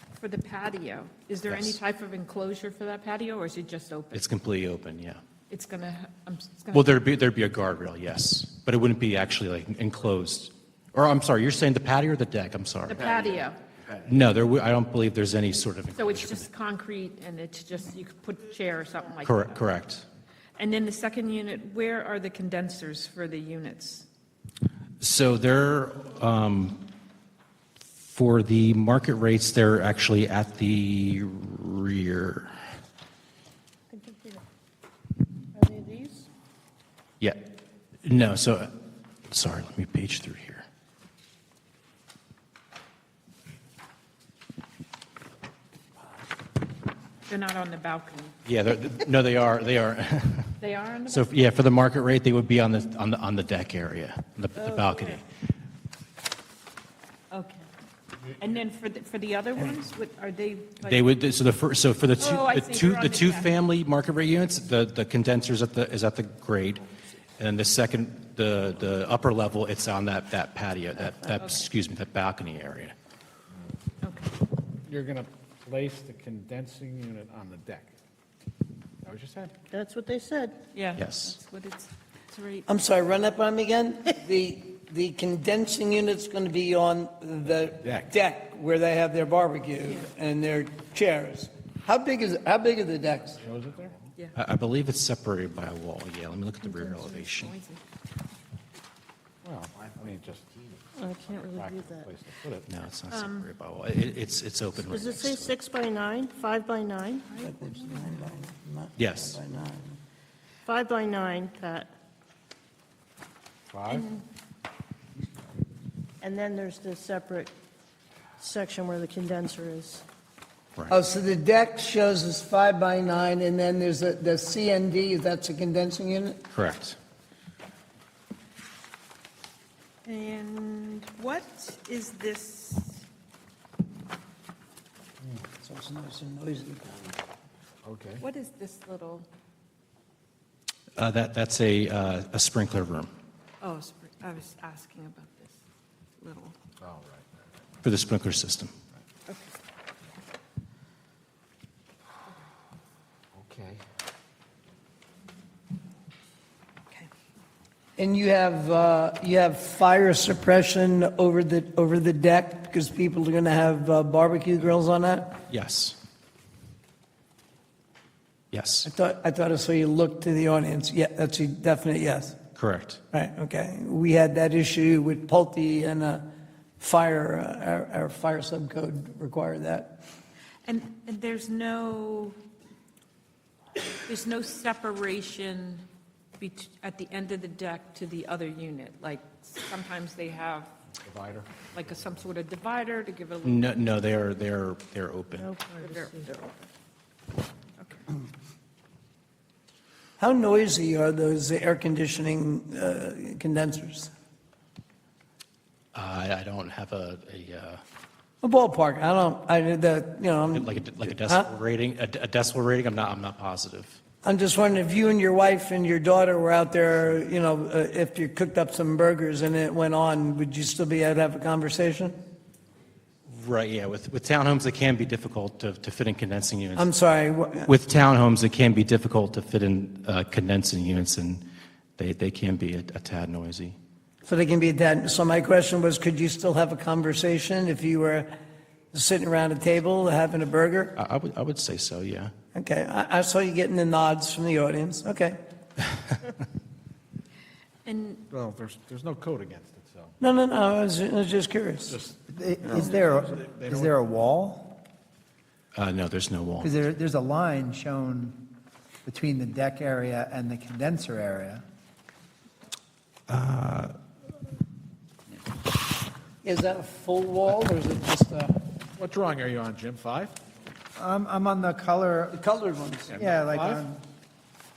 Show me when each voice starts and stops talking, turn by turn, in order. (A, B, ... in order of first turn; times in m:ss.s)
0:00.2-0:04.3 A
0:01.5-0:01.8 B
0:04.1-0:05.2 B
0:05.5-0:07.0 A
0:06.7-0:13.1 B
0:12.9-0:13.6 A
0:14.0-0:16.5 B
0:16.0-0:19.6 A
0:19.2-0:20.0 B
0:20.6-0:24.1 A
0:25.0-0:26.8 B
0:28.0-0:32.5 B
0:33.9-0:34.4 C
0:35.5-0:36.3 C
0:38.0-0:38.7 B
0:39.3-0:40.6 B
0:47.3-0:48.4 A
0:48.4-0:55.2 B
0:50.6-0:51.3 A
0:57.3-0:57.6 A
0:58.4-1:01.0 A
1:00.8-1:06.8 B
1:02.2-1:03.5 A
1:07.4-1:12.9 B
1:14.0-1:14.4 A
1:14.8-1:17.9 D
1:19.0-1:19.5 D
1:19.7-1:20.6 C
1:20.7-1:22.7 A
1:21.0-1:21.4 B
1:22.7-1:33.4 E
1:27.7-1:28.1 D
1:33.4-1:34.1 D
1:34.3-1:37.5 B
1:36.6-1:37.8 A
1:39.4-1:40.5 D
1:41.0-1:42.1 C
1:41.2-1:42.7 D
1:42.7-1:45.6 B
1:43.1-1:43.5 A
1:44.9-1:47.3 C
1:47.3-1:48.3 A
1:47.4-1:50.0 E
1:49.0-1:49.4 B
1:50.6-1:51.9 C
1:53.7-1:54.1 D
1:53.9-1:54.2 A
1:56.2-1:57.5 C
1:58.4-2:00.0 C
2:00.9-2:06.4 E
2:06.5-2:07.0 B
2:10.0-2:13.0 A
2:15.5-2:17.0 E
2:17.8-2:18.2 D
2:18.2-2:19.3 A
2:21.0-2:23.1 B
2:23.6-2:25.6 A
2:26.2-2:26.6 A
2:26.8-2:27.2 D
2:27.8-2:28.7 B
2:29.3-2:29.5 A
2:33.5-2:33.7 D
2:38.0-2:45.4 E
2:45.5-2:46.0 B
2:48.5-2:48.9 B
2:48.8-2:52.4 E
2:52.6-2:53.0 B
2:53.1-2:56.3 E
2:56.8-3:00.0 E
3:00.6-3:02.4 A
3:04.0-3:05.8 A
3:06.4-3:10.7 A
3:11.0-3:11.5 D
3:11.7-3:13.8 A
3:13.4-3:15.5 B
3:15.4-3:16.3 C
3:15.8-3:16.6 A
3:20.2-3:24.1 E
3:25.9-3:27.8 B
3:28.4-3:31.5 E
3:30.5-3:34.0 B
3:34.2-3:42.2 E
3:43.3-3:46.9 B
3:46.7-3:47.7 E
3:47.6-3:51.4 B
3:52.0-3:53.8 B
3:54.2-3:58.3 E
3:58.9-4:01.0 E
4:01.0-4:02.3 B
4:02.5-4:05.4 E
4:07.8-4:08.2 A
4:08.3-4:10.1 D
4:10.2-4:11.9 E
4:11.9-4:14.0 D
4:12.3-4:14.8 F
4:15.7-4:16.7 B
4:16.6-4:18.4 F
4:19.0-4:21.6 F
4:23.3-4:23.9 B
4:26.4-4:28.6 E
4:29.0-4:30.3 D
4:31.0-4:32.4 F
4:32.4-4:33.1 E
4:33.1-4:33.8 D
4:33.2-4:34.0 F